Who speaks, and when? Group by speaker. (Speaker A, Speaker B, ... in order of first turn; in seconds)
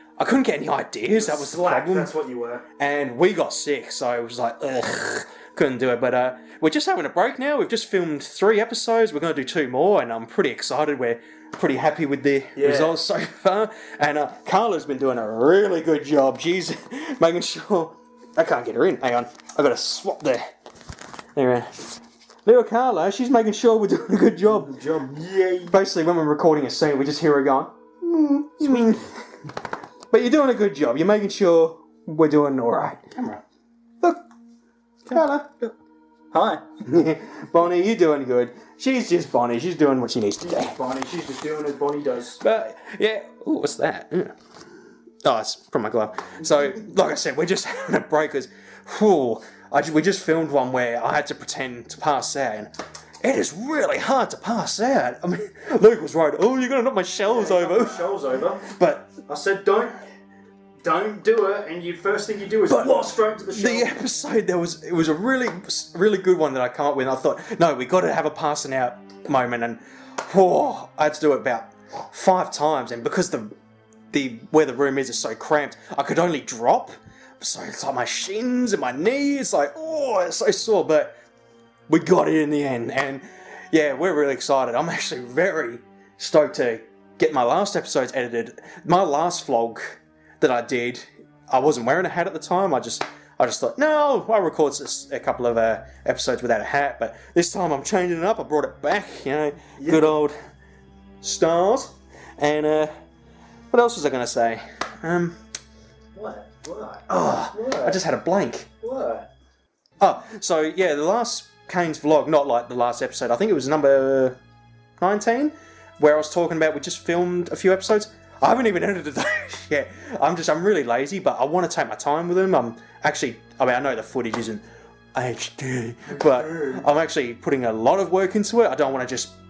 Speaker A: 0.2-2.1, 2.8-20.4, 21.3-21.9, 22.4-24.8, 25.7-29.2, 30.1-33.0, 35.1-35.7, 36.8-40.8, 42.4-44.3, 45.2-58.1, 58.6-59.2, 62.7-73.5, 74.1-81.1, 81.9-100.3, 101.2-102.9, 103.7-105.4, 107.1-108.7, 110.0-114.4, 115.0-124.6, 125.1-129.3
Speaker B: 1.1-2.6, 12.6-13.0, 24.5-25.7, 33.1-33.4, 36.3-36.6, 40.4-42.4, 57.3-58.6, 59.3-60.0, 60.8-63.9, 99.8-100.1, 106.1-107.9, 108.8-109.3